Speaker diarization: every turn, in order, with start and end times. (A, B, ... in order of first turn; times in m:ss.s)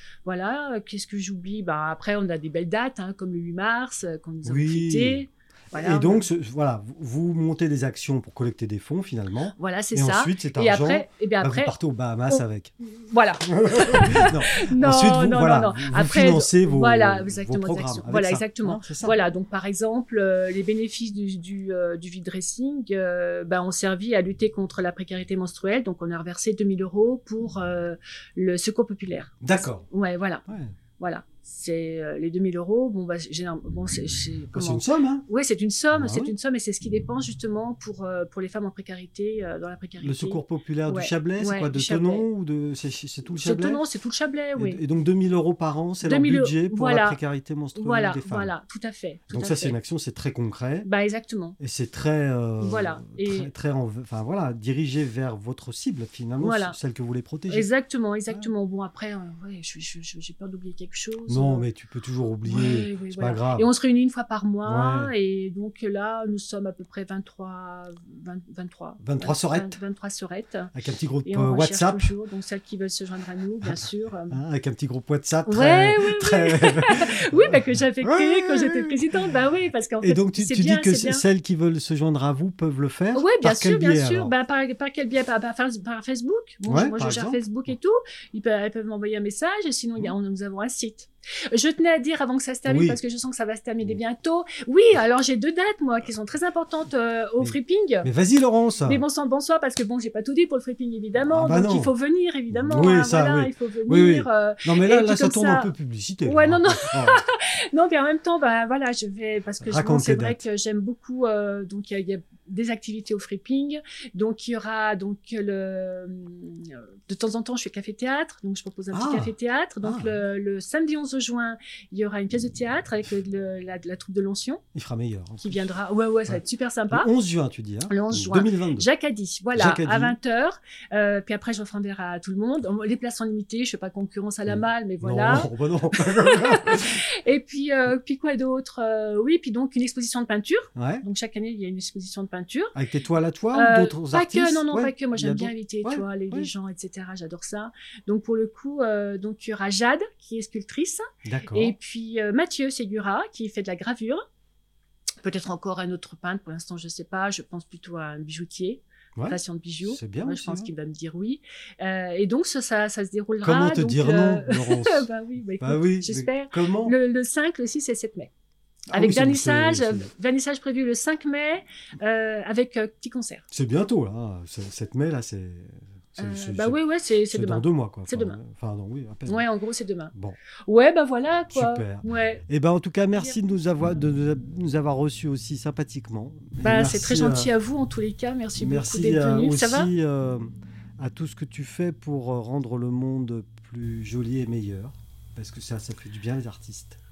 0:00.2-0:06.2 A
0:04.4-0:12.7 B
0:09.6-0:11.7 A
0:12.3-0:30.4 A
0:13.4-0:19.2 B
0:29.4-0:29.8 B
0:30.5-0:30.7 B
0:31.0-0:42.2 A
0:34.5-0:35.3 B
0:35.9-0:36.3 B
0:40.0-0:43.8 B
0:43.3-0:44.8 A
0:44.6-0:48.5 B
0:46.0-0:47.2 A
0:47.7-0:49.7 A
0:49.3-0:50.9 B
0:50.8-0:51.6 A
0:51.6-0:57.7 B
0:52.6-0:53.5 A
0:56.4-0:56.8 A
0:57.5-1:01.7 A
1:01.3-1:03.7 B
1:02.4-1:10.7 A
1:04.6-1:05.1 B
1:09.0-1:09.8 B
1:10.7-1:12.1 B
1:11.2-1:14.4 A
1:13.6-1:19.0 B
1:15.5-1:21.2 A
1:20.0-1:24.3 B
1:23.1-1:38.1 A
1:26.6-1:27.7 B
1:32.6-1:33.0 B
1:37.4-1:39.0 B
1:38.8-1:45.7 A
1:41.3-1:41.9 B
1:42.5-1:47.2 B
1:46.2-2:04.6 A
1:49.6-1:50.4 B
1:58.9-2:00.2 B
2:04.7-2:05.7 B
2:05.4-2:07.1 A
2:06.9-2:08.9 B
2:07.9-2:22.7 A
2:09.5-2:10.2 B
2:14.5-2:17.0 B
2:20.8-2:21.0 B
2:22.7-2:26.5 B
2:23.5-2:34.2 A
2:31.2-2:31.7 B
2:35.2-2:48.3 A
2:39.2-2:40.7 B
2:43.4-2:45.1 B
2:45.6-2:47.0 B
2:48.9-2:50.1 B
2:48.9-2:53.4 A
2:53.5-2:56.8 B
2:56.2-2:58.4 A
2:57.3-2:59.4 B
2:59.2-3:00.1 A
3:00.7-3:02.4 A
3:01.5-3:07.5 B
3:06.6-3:09.9 A
3:08.6-3:17.0 B